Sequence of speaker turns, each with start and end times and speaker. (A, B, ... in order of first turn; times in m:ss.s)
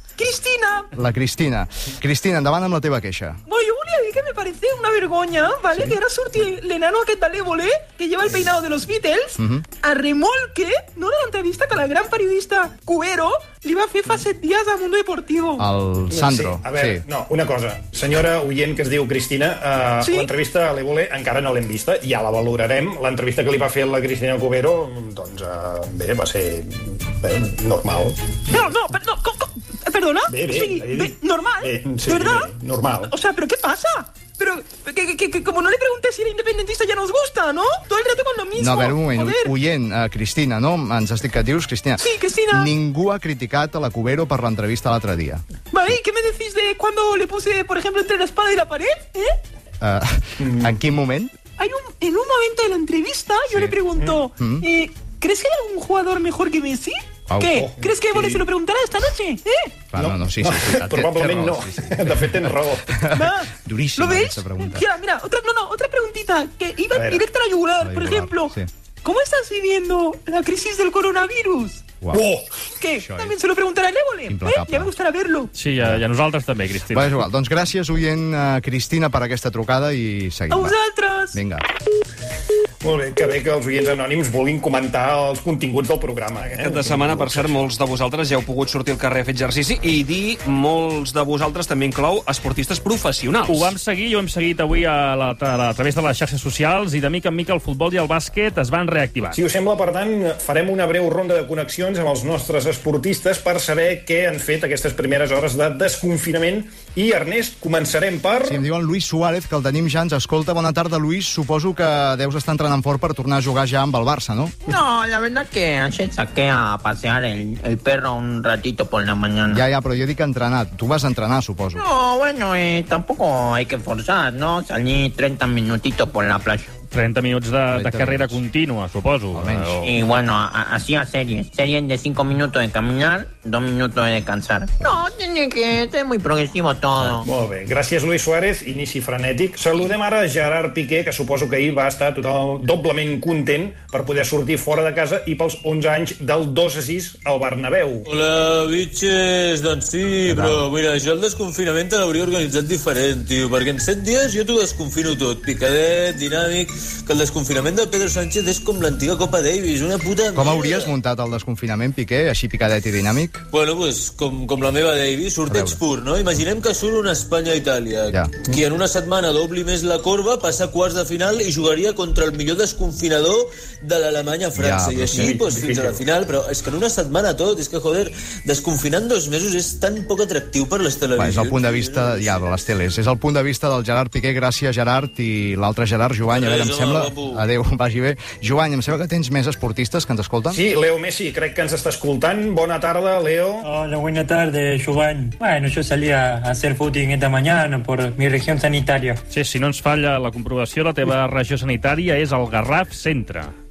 0:00.2-0:00.9 A
0:00.9-0:03.4 B
0:03.5-0:15.6 A
0:09.4-0:09.6 B
0:15.6-0:17.0 B
0:16.1-0:28.3 C
0:20.0-0:20.3 A
0:28.5-0:32.5 A
0:30.3-0:33.1 C
0:33.1-0:39.5 A
0:38.6-0:45.4 B
0:42.0-0:42.7 A
0:45.7-0:49.4 A
0:49.8-0:51.3 B
0:50.4-0:50.7 C
0:51.6-0:59.8 A
0:53.5-0:53.8 B
0:54.4-0:54.6 B
0:57.3-0:57.6 B
0:57.5-0:58.4 C
0:59.9-1:04.8 B
1:00.0-1:03.0 C
1:03.1-1:12.0 A
1:06.9-1:07.2 C
1:07.8-1:08.7 B
1:12.1-1:12.4 C
1:12.8-1:15.5 A
1:13.0-1:13.3 B
1:14.3-1:14.9 B
1:15.5-1:17.2 D
1:16.9-1:20.8 B
1:20.5-1:21.4 A
1:21.3-1:21.6 B
1:22.8-1:27.6 C
1:26.5-1:33.7 E
1:33.5-1:39.4 D
1:39.3-1:48.6 C
1:48.4-1:54.5 B
1:54.7-1:59.6 F
1:59.5-2:01.8 B
2:01.8-2:06.7 F
2:06.9-2:09.9 D
2:07.7-2:08.4 B
2:09.3-2:09.9 B
2:09.8-2:17.3 F
2:17.2-2:28.1 C
2:28.0-2:40.9 G
2:30.2-2:30.6 B
2:40.3-2:43.4 B
2:43.5-3:02.4 G
2:45.5-2:45.8 B
2:54.6-2:55.3 B
2:55.1-2:56.0 C
3:01.2-3:10.6 B
3:06.3-3:07.4 G
3:10.5-3:13.7 C
3:13.6-3:19.2 H
3:19.3-3:23.5 D